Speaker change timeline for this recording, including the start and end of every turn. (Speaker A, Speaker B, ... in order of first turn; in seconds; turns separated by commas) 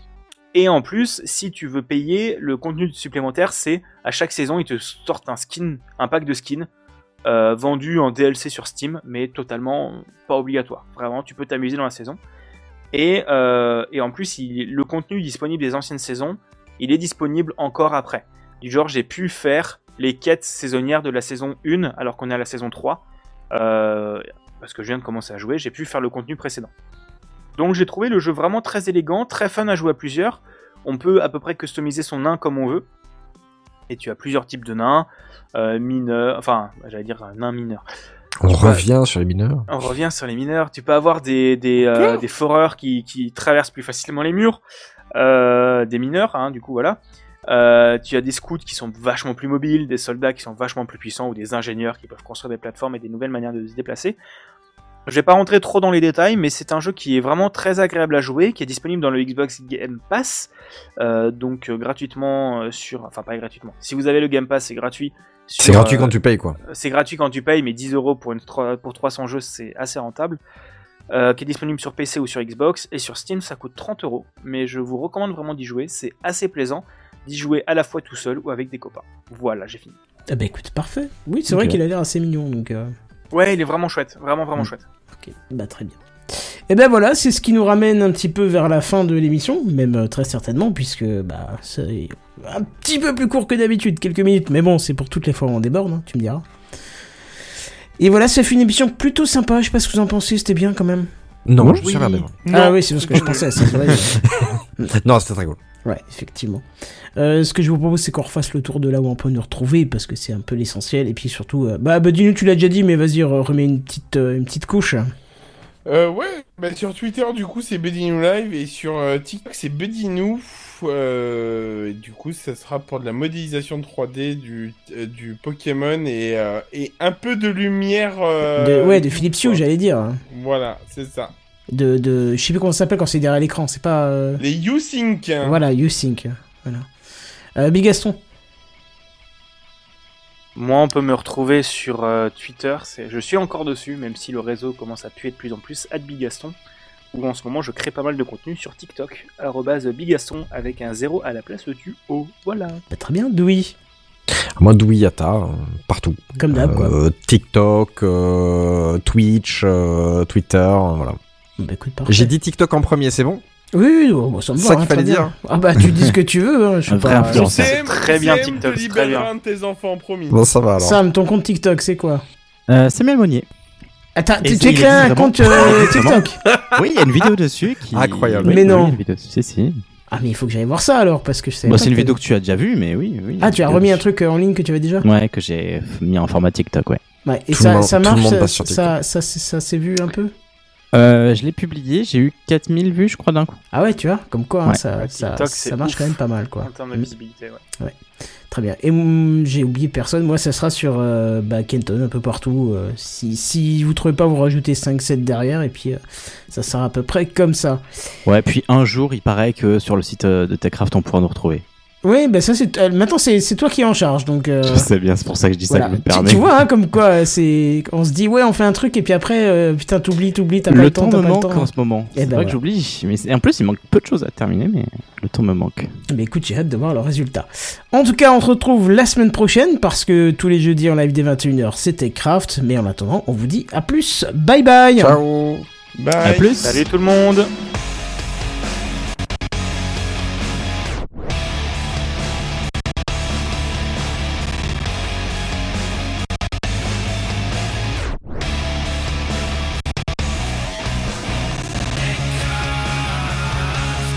Speaker A: 0.5-6.7, Speaker A: 7.2-12.2, Speaker A: 12.9-26.7, Speaker A: 27.6-32.9, Speaker A: 33.9-37.9, Speaker B: 38.4-39.7, Speaker A: 38.6-38.8, Speaker A: 39.7-44.6, Speaker C: 41.9-42.2, Speaker A: 45.1-54.2, Speaker A: 55.1-66.2, Speaker B: 65.6-66.6, Speaker A: 66.7-70.4, Speaker A: 71.1-80.0, Speaker D: 80.3-82.9, Speaker E: 81.5-81.8, Speaker A: 83.3-84.8, Speaker D: 85.2-96.4, Speaker D: 98.0-101.1, Speaker B: 101.5-102.3, Speaker E: 101.6-102.1, Speaker A: 101.8-102.2, Speaker C: 102.4-104.0, Speaker D: 102.5-104.2, Speaker B: 104.2-105.6, Speaker D: 105.8-106.6, Speaker D: 107.2-115.1, Speaker C: 115.9-129.6, Speaker D: 128.6-130.2, Speaker C: 130.3-131.3, Speaker D: 131.7-134.4, Speaker C: 134.4-135.6, Speaker D: 135.4-136.9, Speaker D: 137.6-138.2, Speaker A: 140.6-146.6, Speaker A: 147.1-152.8, Speaker D: 152.9-153.8, Speaker B: 154.3-161.2, Speaker D: 156.4-157.0, Speaker D: 161.6-162.3, Speaker B: 162.1-163.4, Speaker D: 163.8-167.5, Speaker B: 164.6-165.3, Speaker E: 166.9-167.8, Speaker C: 167.3-170.4, Speaker A: 167.5-169.3, Speaker B: 170.3-171.0, Speaker D: 170.8-172.2, Speaker E: 172.7-173.5, Speaker D: 174.2-176.4, Speaker E: 174.4-176.2, Speaker E: 176.8-179.8, Speaker B: 177.9-178.8, Speaker D: 178.4-179.0, Speaker D: 180.1-182.2, Speaker E: 181.7-184.0, Speaker D: 183.4-185.1, Speaker E: 185.0-187.0, Speaker D: 187.2-190.3, Speaker B: 187.5-188.9, Speaker E: 190.9-193.6, Speaker D: 193.7-197.1, Speaker A: 195.0-197.6, Speaker D: 198.5-207.8, Speaker E: 208.3-211.7, Speaker D: 212.0-214.9, Speaker E: 214.6-216.5, Speaker D: 215.7-222.6, Speaker E: 220.7-225.9, Speaker D: 226.1-235.2, Speaker B: 235.0-235.7, Speaker C: 236.0-236.6, Speaker E: 236.2-236.8, Speaker A: 236.6-237.5